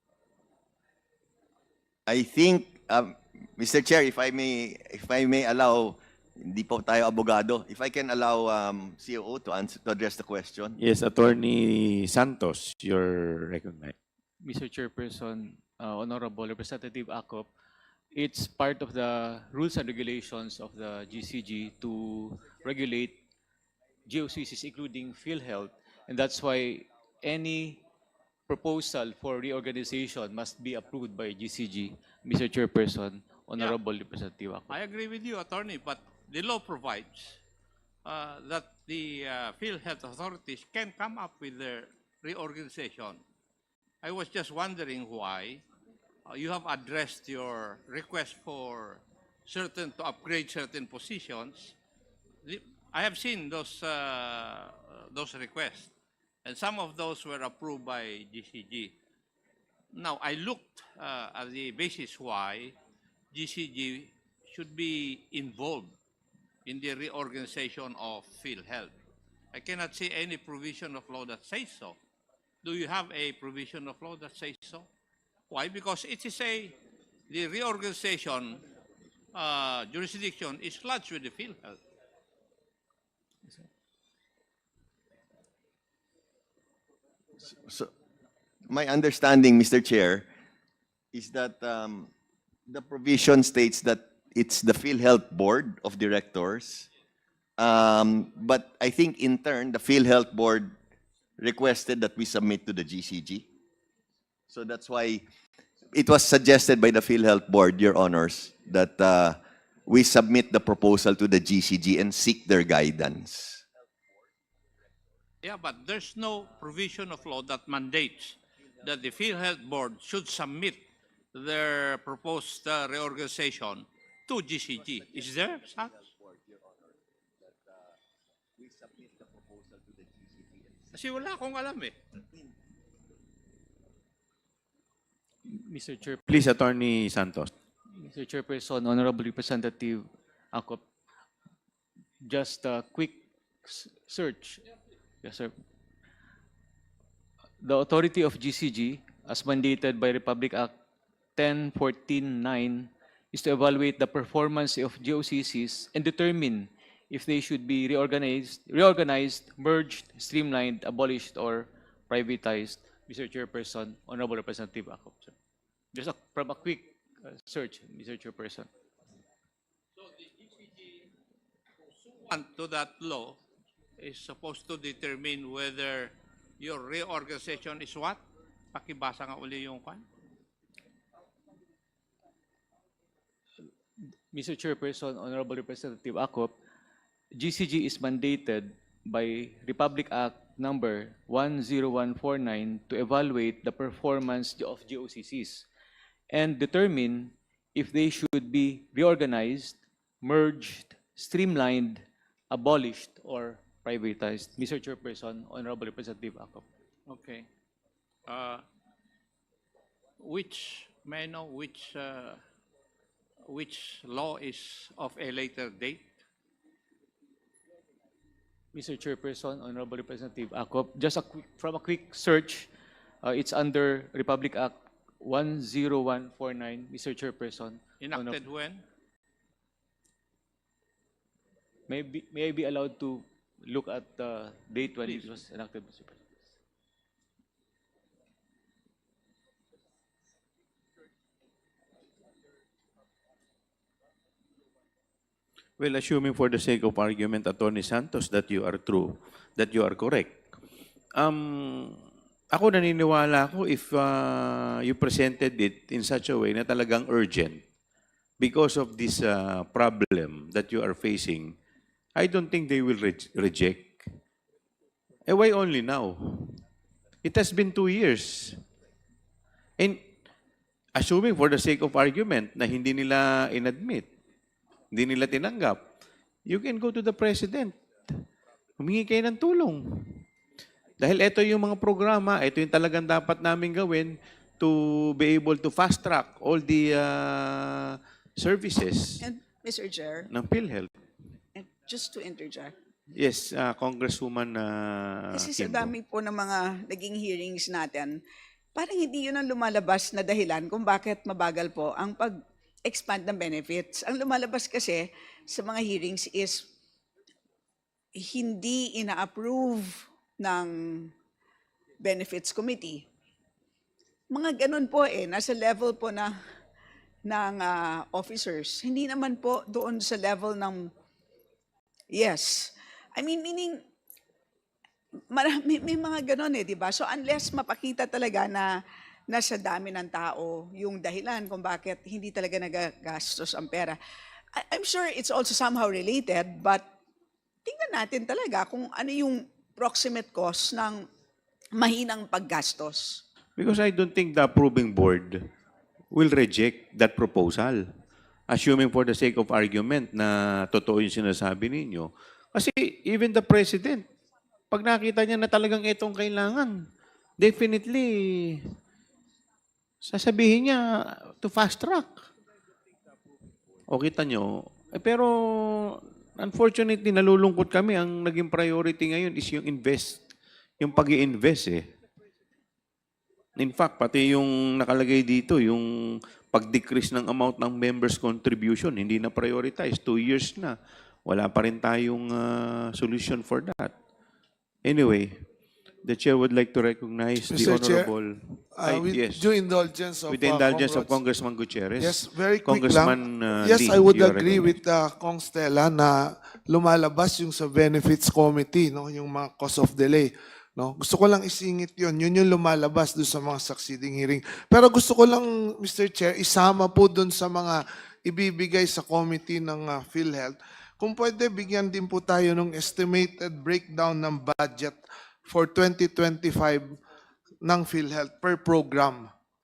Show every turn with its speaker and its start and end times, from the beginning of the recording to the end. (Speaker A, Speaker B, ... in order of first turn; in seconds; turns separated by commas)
Speaker A: 2.1-10.8, Speaker B: 10.8-13.9, Speaker C: 14.4-17.5, Speaker C: 18.1-23.2, Speaker C: 24.1-27.8, Speaker C: 28.5-34.7, Speaker D: 34.7-37.4, Speaker D: 38.0-43.2, Speaker D: 44.0-45.6, Speaker D: 46.3-51.7, Speaker D: 52.4-55.9, Speaker D: 56.4-58.9, Speaker D: 59.9-62.8, Speaker D: 63.3-65.9, Speaker D: 66.7-68.9, Speaker D: 69.5-72.0, Speaker D: 72.6-74.8, Speaker D: 75.5-76.8, Speaker D: 77.3-78.6, Speaker D: 79.3-81.7, Speaker A: 87.5-87.9, Speaker A: 88.7-90.3, Speaker A: 91.1-92.1, Speaker A: 92.7-96.9, Speaker A: 97.6-100.7, Speaker A: 101.4-103.5, Speaker A: 104.5-105.2, Speaker A: 105.9-113.6, Speaker D: 115.4-120.8, Speaker D: 121.3-126.0, Speaker A: 125.0-127.9, Speaker A: 128.6-130.9, Speaker D: 130.9-131.9, Speaker C: 135.4-136.4, Speaker B: 136.3-137.5, Speaker C: 137.9-140.8, Speaker C: 142.2-144.6, Speaker C: 145.2-145.5, Speaker C: 147.6-150.7, Speaker C: 151.3-165.3, Speaker C: 165.9-168.7, Speaker D: 172.0-173.4, Speaker D: 174.0-178.2, Speaker D: 178.7-180.0, Speaker C: 184.3-186.6, Speaker C: 187.3-195.7, Speaker C: 196.3-206.7, Speaker D: 207.1-207.5, Speaker D: 208.3-208.6, Speaker D: 210.2-212.4, Speaker D: 213.5-216.1, Speaker C: 218.7-222.7, Speaker C: 223.2-228.4, Speaker D: 228.0-228.8, Speaker C: 231.9-236.5, Speaker B: 245.8-250.4, Speaker B: 251.2-252.0, Speaker B: 252.5-257.6, Speaker B: 258.4-261.6, Speaker B: 262.1-264.1, Speaker B: 265.2-266.6, Speaker B: 267.2-268.6, Speaker B: 269.8-270.0, Speaker B: 270.9-274.1, Speaker B: 274.9-275.8, Speaker B: 276.5-278.2, Speaker B: 278.8-280.2, Speaker B: 281.0-289.2, Speaker E: 289.2-290.3, Speaker B: 290.3-290.9, Speaker E: 291.5-292.7, Speaker B: 293.1-295.9, Speaker E: 295.3-298.2, Speaker E: 298.7-302.3, Speaker E: 302.9-306.6, Speaker E: 308.2-311.1, Speaker E: 312.0-313.0, Speaker E: 314.3-316.3, Speaker E: 317.2-320.9, Speaker E: 322.1-323.8, Speaker E: 325.3-328.7, Speaker E: 329.3-334.0, Speaker E: 334.6-336.8, Speaker E: 337.6-341.0, Speaker E: 341.8-343.2, Speaker B: 343.6-345.4, Speaker B: 346.1-347.8, Speaker B: 348.5-354.0, Speaker B: 354.7-356.9, Speaker B: 357.4-358.6, Speaker B: 360.0-362.2, Speaker B: 363.9-370.2, Speaker B: 370.8-371.8, Speaker B: 373.6-383.9, Speaker B: 384.8-385.4, Speaker B: 386.0-389.5, Speaker F: 387.4-388.1, Speaker F: 388.7-391.2, Speaker B: 390.3-394.8, Speaker F: 392.0-417.0, Speaker F: 417.6-419.3